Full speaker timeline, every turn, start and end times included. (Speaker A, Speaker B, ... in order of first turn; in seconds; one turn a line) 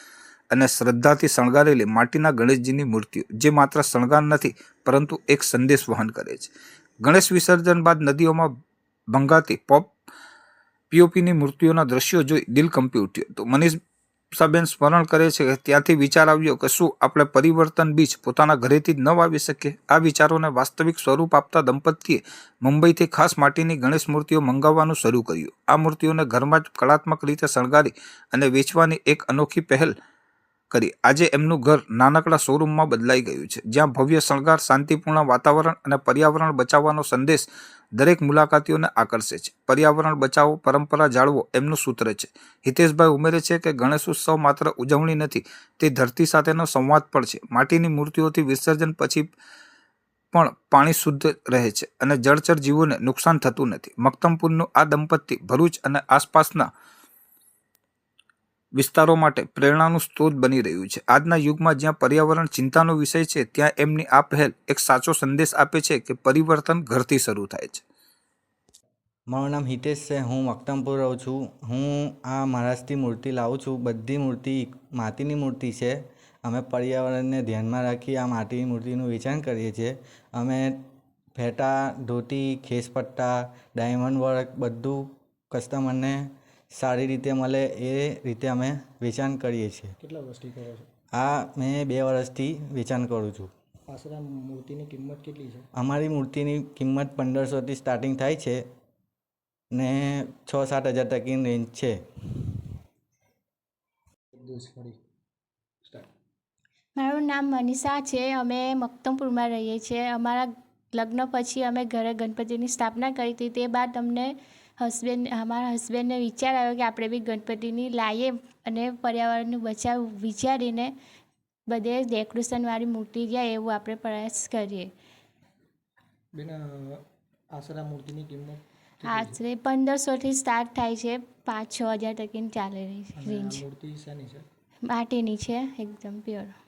Speaker A: 0.5-6.5
Speaker A: 7.0-8.5
Speaker A: 9.1-9.9
Speaker A: 10.9-13.8
Speaker A: 14.4-29.9
Speaker A: 30.7-49.3
Speaker A: 50.3-56.7
Speaker A: 58.8-67.8
Speaker B: 69.3-80.8
Speaker B: 81.4-86.2
Speaker B: 86.8-89.9
Speaker C: 90.0-90.9
Speaker B: 91.1-93.5
Speaker C: 93.9-95.7
Speaker B: 95.7-98.6
Speaker B: 99.7-102.0
Speaker C: 104.4-105.0
Speaker D: 107.0-120.9
Speaker D: 121.7-124.9
Speaker C: 126.3-127.0
Speaker C: 127.5-128.5
Speaker D: 128.5-133.7
Speaker C: 129.0-129.3
Speaker C: 133.1-134.4
Speaker D: 134.8-136.5